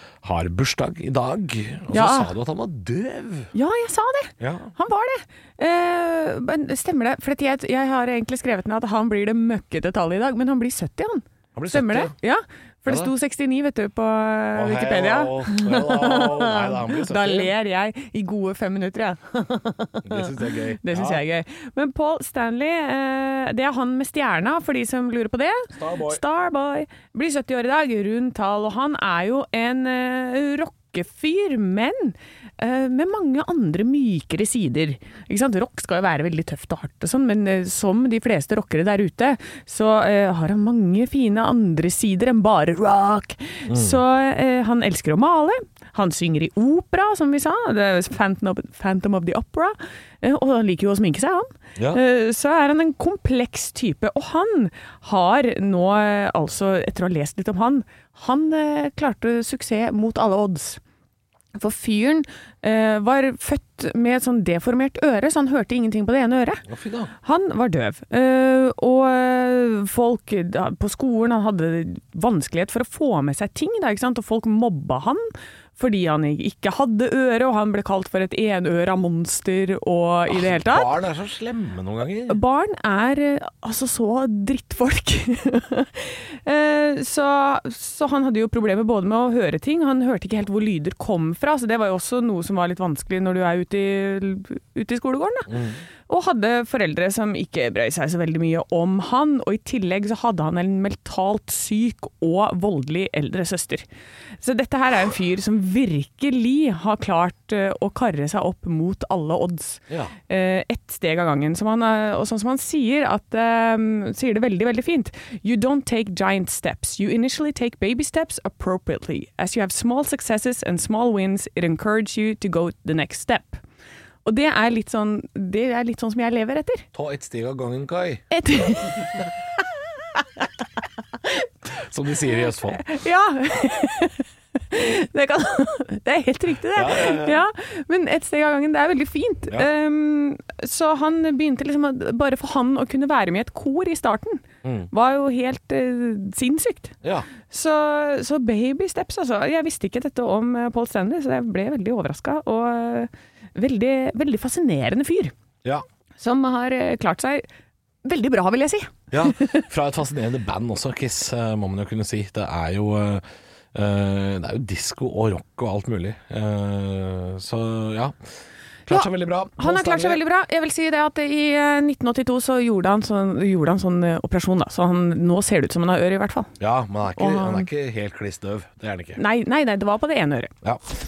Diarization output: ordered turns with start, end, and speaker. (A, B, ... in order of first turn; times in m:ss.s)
0:00.2-0:03.5 A
0:01.9-0:02.3 B
0:03.5-0:20.3 B
0:04.4-0:04.7 A
0:11.5-0:12.1 A
0:14.5-0:17.5 A
0:20.0-0:21.2 A
0:20.8-1:00.8 B
0:25.7-0:26.2 A
0:43.7-0:44.0 A
1:01.6-1:06.6 B
1:06.7-1:07.1 A
1:07.2-1:20.9 B
1:20.3-1:22.4 A
1:22.3-1:35.5 B
1:35.5-1:35.8 A
1:36.1-1:43.8 B
1:44.4-2:03.6 B
1:49.9-1:50.1 A
2:04.2-2:06.9 B
2:06.9-2:09.2 A
2:08.3-2:09.2 B
2:11.7-2:12.8 A
2:12.7-2:26.9 B
2:16.7-2:17.4 A
2:24.6-2:24.9 A
2:27.5-2:35.3 B
2:36.2-2:37.4 B
2:38.0-2:39.6 B
2:39.1-2:48.2 A
2:48.8-2:50.2 A
2:48.9-2:56.5 B
2:56.6-2:59.2 A
2:57.1-2:57.7 B
2:59.2-3:00.5 B